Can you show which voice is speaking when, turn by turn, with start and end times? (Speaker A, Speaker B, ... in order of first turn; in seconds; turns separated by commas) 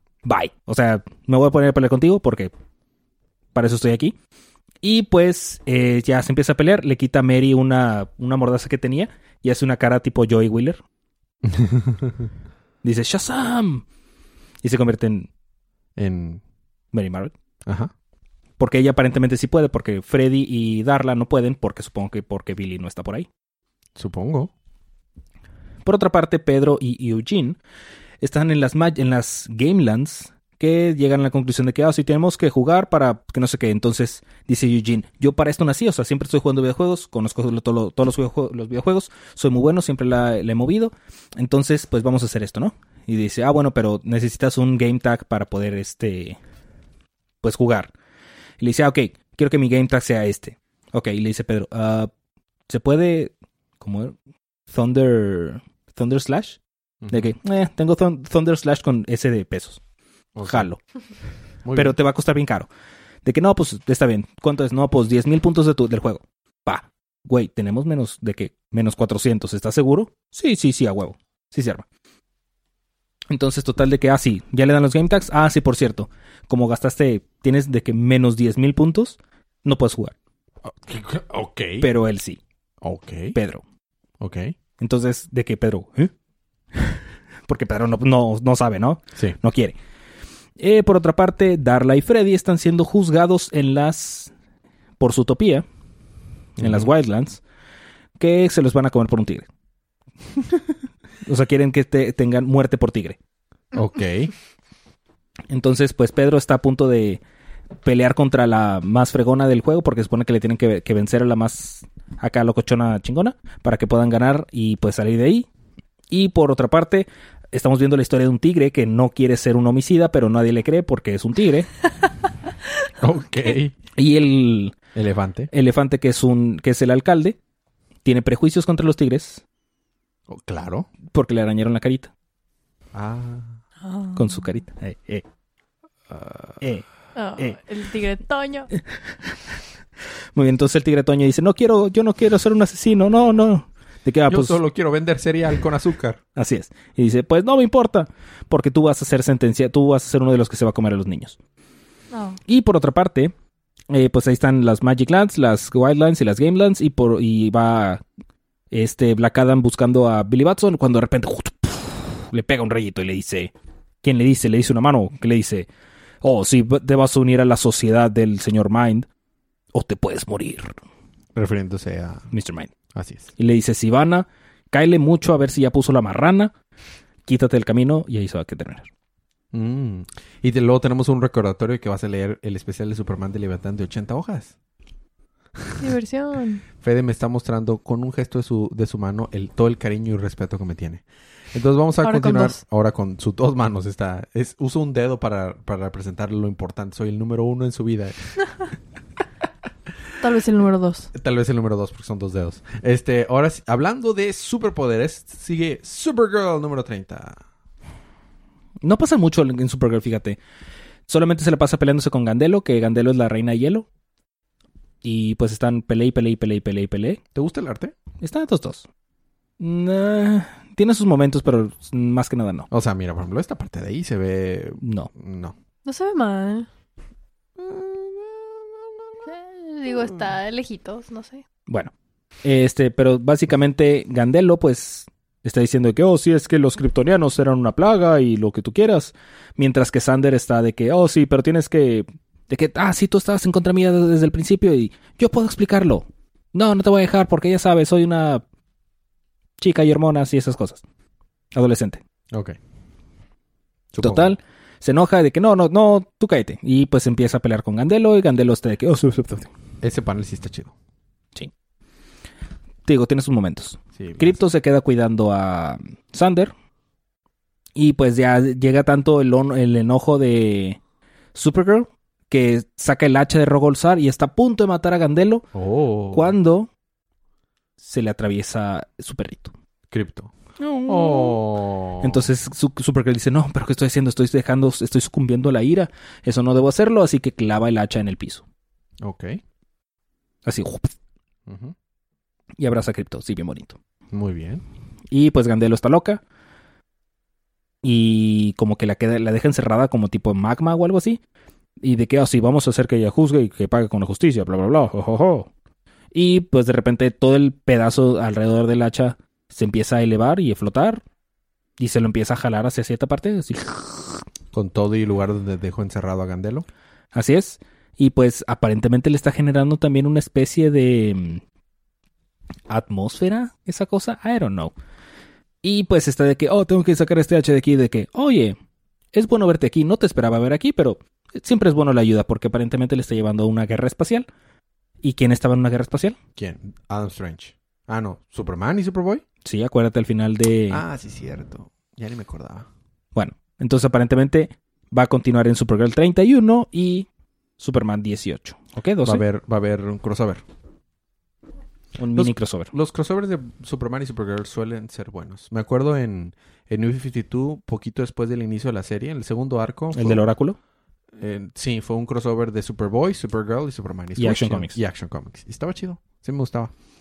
Speaker A: 0.2-2.5, Speaker A: 3.5-4.2, Speaker A: 4.8-10.8, Speaker B: 11.4-12.3, Speaker A: 12.8-13.8, Speaker A: 14.6-15.3, Speaker B: 15.9-16.4, Speaker A: 16.9-17.3, Speaker B: 17.6-17.9, Speaker A: 18.6-23.3, Speaker B: 24.0-24.5, Speaker A: 25.8-27.6, Speaker A: 28.2-46.4, Speaker A: 47.4-47.9, Speaker A: 48.6-52.1, Speaker A: 52.7-54.1, Speaker A: 54.7-59.8, Speaker B: 57.0-57.3, Speaker B: 60.3-60.7, Speaker A: 60.4-60.8, Speaker B: 61.6-62.0, Speaker A: 61.7-62.7, Speaker A: 63.2-71.8, Speaker A: 73.3-80.1, Speaker B: 80.7-81.9, Speaker A: 81.8-82.4, Speaker B: 82.8-83.3, Speaker A: 83.3-83.6, Speaker B: 84.2-84.5, Speaker A: 84.8-86.1, Speaker A: 86.7-89.8, Speaker A: 90.6-94.3, Speaker A: 95.0-95.7, Speaker B: 96.6-96.9, Speaker A: 96.6-97.4, Speaker A: 98.2-99.5, Speaker A: 101.2-103.2, Speaker B: 103.7-104.3, Speaker A: 105.5-107.2, Speaker A: 107.8-115.5, Speaker A: 116.1-121.7, Speaker B: 123.0-123.7, Speaker A: 124.0-124.7, Speaker B: 124.9-125.5, Speaker A: 125.5-127.4, Speaker A: 128.0-129.4, Speaker B: 130.3-130.9, Speaker A: 131.1-132.1, Speaker B: 132.9-133.6, Speaker C: 133.8-134.3, Speaker A: 134.1-135.2, Speaker B: 136.1-136.6, Speaker C: 137.1-138.7, Speaker A: 138.7-139.6, Speaker A: 140.3-144.6, Speaker B: 144.3-146.2, Speaker A: 146.3-151.4, Speaker C: 152.1-152.4, Speaker A: 152.5-153.3, Speaker A: 153.9-158.0, Speaker A: 158.7-163.5, Speaker A: 164.0-165.7, Speaker A: 166.2-169.1, Speaker A: 169.7-170.8, Speaker B: 171.3-172.3, Speaker A: 172.3-172.7, Speaker B: 172.9-173.3, Speaker A: 173.4-176.5, Speaker A: 177.2-178.9, Speaker B: 179.5-184.5, Speaker C: 185.8-186.6, Speaker B: 186.8-198.5, Speaker C: 192.0-192.6, Speaker C: 200.2-201.1, Speaker B: 201.1-207.4, Speaker A: 208.8-210.4, Speaker A: 211.1-213.9, Speaker A: 215.0-217.2, Speaker B: 217.3-217.9, Speaker A: 218.2-218.8, Speaker A: 219.6-222.7, Speaker B: 222.7-225.5, Speaker A: 224.8-225.1, Speaker C: 225.8-226.7, Speaker B: 227.6-229.3, Speaker C: 229.2-231.4, Speaker A: 232.4-248.4, Speaker A: 249.6-250.8, Speaker A: 251.5-252.0, Speaker B: 253.9-254.3, Speaker A: 254.0-259.5, Speaker B: 259.8-260.7, Speaker A: 262.9-266.5, Speaker B: 264.0-264.4, Speaker A: 267.8-270.8, Speaker A: 271.3-275.4, Speaker B: 275.5-276.4, Speaker A: 276.1-276.7, Speaker A: 277.8-279.5, Speaker B: 279.9-280.3, Speaker A: 280.6-281.4, Speaker B: 280.9-282.3, Speaker A: 282.0-288.4, Speaker B: 289.0-289.4, Speaker A: 290.4-290.9, Speaker B: 291.5-291.7, Speaker A: 292.6-293.8, Speaker B: 294.1-294.6, Speaker A: 295.1-296.2, Speaker A: 297.8-301.2, Speaker A: 301.8-305.5, Speaker A: 306.1-311.0, Speaker A: 311.8-314.3, Speaker B: 314.5-316.6, Speaker A: 317.1-321.4, Speaker A: 322.7-324.7, Speaker A: 325.6-328.6, Speaker A: 329.1-334.3, Speaker A: 335.0-336.2, Speaker B: 336.4-339.2, Speaker A: 339.4-340.8, Speaker B: 340.7-342.7, Speaker A: 343.1-347.1, Speaker A: 347.6-349.2, Speaker B: 349.0-350.4, Speaker A: 352.0-352.7, Speaker B: 352.1-360.2, Speaker A: 359.9-360.6, Speaker B: 361.2-366.7, Speaker A: 364.2-364.8